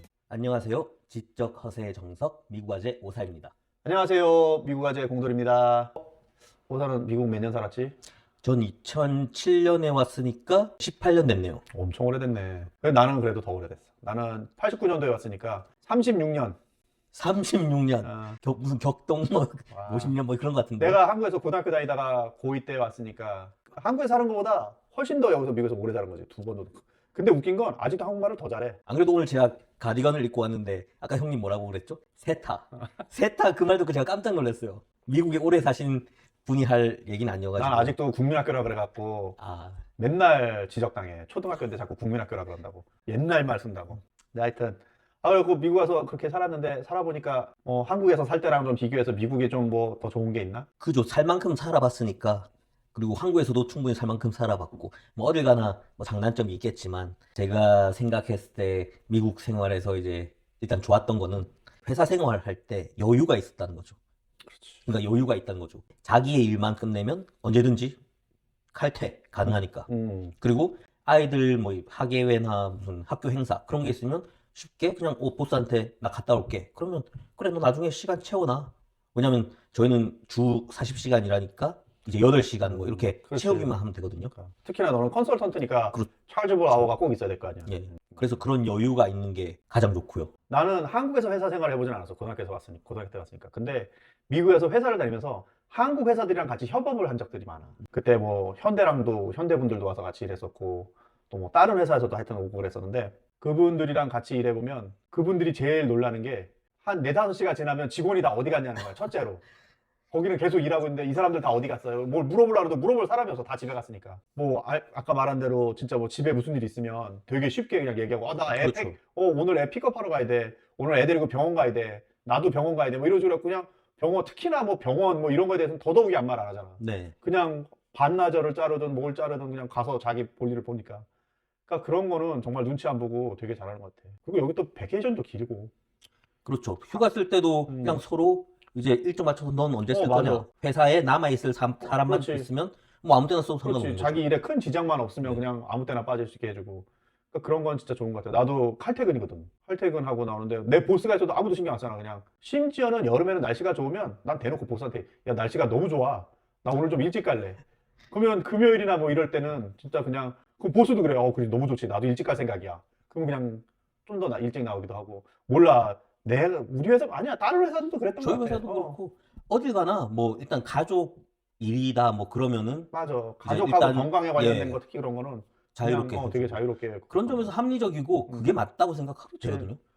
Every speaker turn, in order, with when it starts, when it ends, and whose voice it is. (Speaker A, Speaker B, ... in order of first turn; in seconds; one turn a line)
Speaker A: 0.3-3.5
Speaker B: 3.8-6.0
Speaker B: 6.7-7.9
Speaker A: 8.4-11.6
Speaker B: 11.7-16.6
Speaker A: 17.1-21.0
Speaker B: 18.0-18.4
Speaker B: 19.7-20.2
Speaker B: 20.8-28.8
Speaker A: 28.9-38.0
Speaker B: 37.6-39.4
Speaker A: 39.4-39.8
Speaker B: 40.0-50.6
Speaker A: 50.8-64.0
Speaker B: 64.5-64.8
Speaker A: 64.8-68.0
Speaker A: 68.7-69.9
Speaker B: 69.4-70.3
Speaker A: 70.4-84.3
Speaker B: 82.6-83.8
Speaker B: 84.3-88.4
Speaker A: 87.7-90.3
Speaker B: 90.5-109.4
Speaker B: 110.1-131.1
Speaker A: 118.5-118.9
Speaker A: 126.8-127.1
Speaker B: 131.7-135.7
Speaker A: 136.4-144.2
Speaker B: 137.7-138.0
Speaker B: 139.9-140.4
Speaker B: 141.9-142.5
Speaker B: 143.6-169.0
Speaker A: 168.2-172.9
Speaker B: 172.9-177.5
Speaker A: 173.4-174.8
Speaker A: 175.7-179.8
Speaker B: 178.3-178.6
Speaker B: 179.4-179.7